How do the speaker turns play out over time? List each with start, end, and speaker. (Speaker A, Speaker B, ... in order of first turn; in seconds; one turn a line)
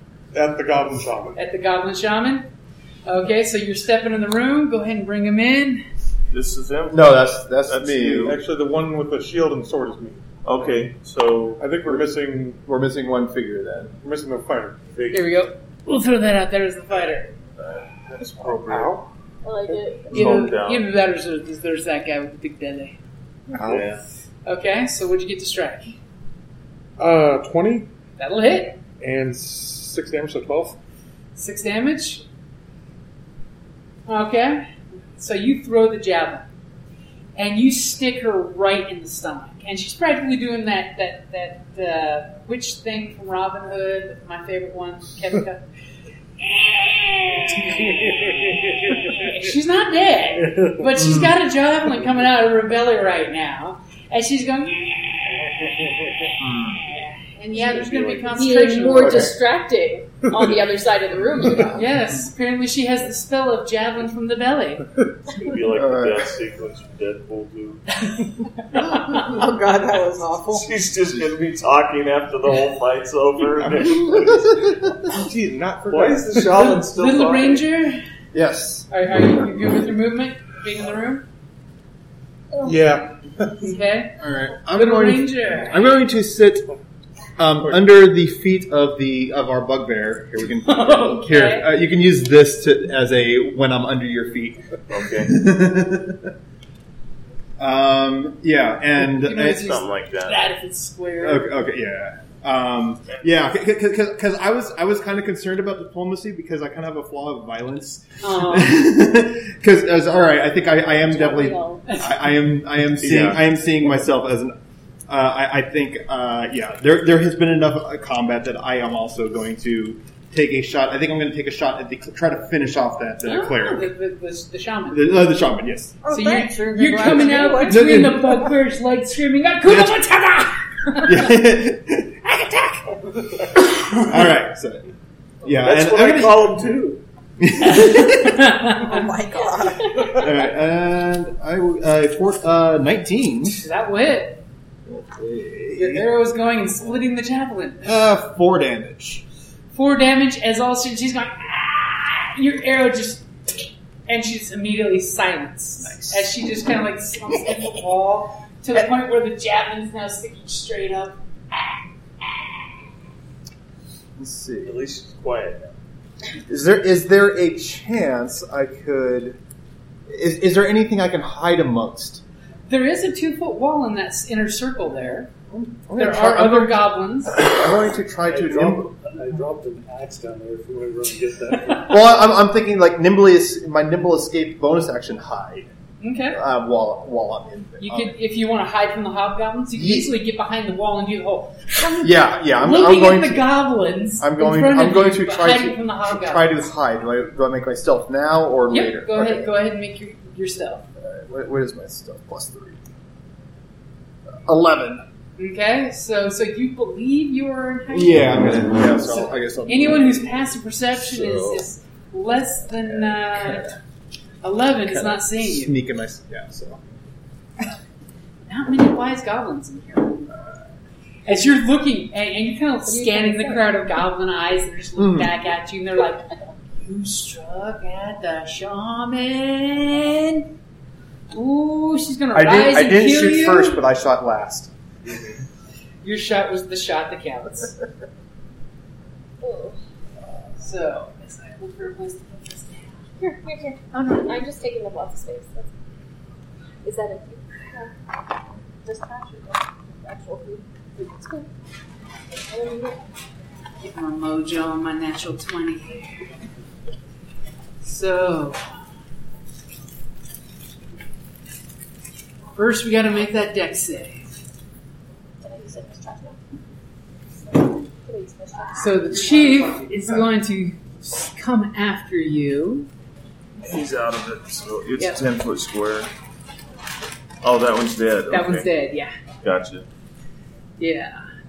Speaker A: 0.3-1.4
Speaker B: 1.4-2.5
Speaker B: 3.0-5.8
Speaker C: 6.3-8.4
Speaker D: 6.9-8.4
Speaker A: 8.2-10.8
Speaker C: 10.4-11.7
Speaker A: 11.6-12.6
Speaker D: 12.7-13.9
Speaker A: 14.0-14.8
Speaker C: 14.9-15.2
Speaker B: 15.1-17.3
Speaker C: 17.6-19.0
Speaker A: 18.4-19.1
Speaker E: 19.4-20.4
Speaker C: 20.1-20.9
Speaker B: 20.1-23.0
Speaker A: 23.5-23.8
Speaker C: 23.7-24.0
Speaker B: 24.4-25.9
Speaker A: 27.0-27.9
Speaker B: 28.2-28.8
Speaker A: 29.0-30.8
Speaker B: 31.4-32.2
Speaker B: 34.1-36.4
Speaker B: 37.4-45.6
Speaker B: 46.4-48.2
Speaker F: 47.5-49.1
Speaker B: 49.1-55.5
Speaker F: 50.4-50.9
Speaker D: 51.0-51.4
Speaker F: 55.6-56.2
Speaker D: 56.4-56.8
Speaker B: 56.8-59.3
Speaker C: 57.6-58.4
Speaker E: 58.3-61.9
Speaker D: 59.0-59.3
Speaker B: 61.7-64.9
Speaker C: 65.3-67.9
Speaker D: 65.7-66.3
Speaker B: 68.0-69.3
Speaker G: 69.0-70.6
Speaker C: 70.5-74.8
Speaker A: 75.1-76.7
Speaker C: 75.9-77.6
Speaker B: 76.5-78.0
Speaker D: 78.3-78.9
Speaker B: 78.9-81.2
Speaker A: 82.6-83.6
Speaker B: 83.6-84.2
Speaker D: 84.2-86.7
Speaker B: 84.7-86.0
Speaker D: 87.4-96.3
Speaker B: 90.6-91.7
Speaker C: 94.9-95.4
Speaker D: 97.6-99.7
Speaker B: 99.0-101.5
Speaker C: 99.4-100.5
Speaker D: 101.2-114.6
Speaker B: 108.2-108.8
Speaker E: 111.1-111.9
Speaker B: 111.9-112.1
Speaker C: 113.0-113.4
Speaker D: 115.1-123.9
Speaker B: 123.2-125.1
Speaker D: 124.9-126.0
Speaker G: 126.0-128.5
Speaker B: 126.1-131.3
Speaker D: 127.1-128.4
Speaker D: 129.6-130.0
Speaker D: 131.0-132.8
Speaker D: 133.9-134.8
Speaker D: 135.4-136.6
Speaker F: 135.6-137.0
Speaker D: 137.4-138.4
Speaker B: 137.6-139.1
Speaker G: 138.7-140.2
Speaker E: 139.8-140.1
Speaker D: 140.1-143.6
Speaker B: 143.5-144.4
Speaker D: 144.9-146.1
Speaker B: 145.8-148.0
Speaker D: 147.8-149.2
Speaker B: 149.7-153.5
Speaker B: 154.1-161.2
Speaker D: 155.8-156.3
Speaker D: 164.2-164.8
Speaker C: 164.6-165.8
Speaker D: 166.5-169.4
Speaker D: 170.1-172.2
Speaker B: 172.7-175.3
Speaker D: 175.5-178.9
Speaker B: 175.9-177.4
Speaker F: 178.3-182.1
Speaker D: 181.9-185.7
Speaker B: 186.0-186.4
Speaker D: 186.3-188.2
Speaker B: 187.8-196.5
Speaker D: 189.7-190.1
Speaker D: 192.0-193.5
Speaker D: 194.2-199.5
Speaker B: 198.7-200.8
Speaker D: 201.0-202.8
Speaker D: 204.3-205.0
Speaker B: 205.4-213.8
Speaker D: 207.9-210.3
Speaker D: 211.1-211.6
Speaker D: 212.9-213.8
Speaker B: 214.4-215.8
Speaker D: 214.9-216.8
Speaker B: 218.5-220.3
Speaker B: 221.3-230.5
Speaker E: 222.9-223.7
Speaker D: 224.9-225.3
Speaker B: 231.3-233.8
Speaker D: 232.3-234.7
Speaker B: 236.0-237.8
Speaker E: 239.4-239.8
Speaker B: 240.6-243.0
Speaker E: 243.2-245.7
Speaker E: 246.8-247.9
Speaker E: 248.8-251.5
Speaker E: 252.4-253.0
Speaker B: 253.8-256.2
Speaker B: 257.8-258.6
Speaker B: 262.6-264.2
Speaker E: 265.4-266.4
Speaker E: 267.5-269.8
Speaker B: 268.8-272.9
Speaker C: 273.6-276.1
Speaker B: 275.0-275.2
Speaker C: 277.4-278.7
Speaker B: 278.3-279.1
Speaker C: 279.4-279.9
Speaker B: 280.8-281.2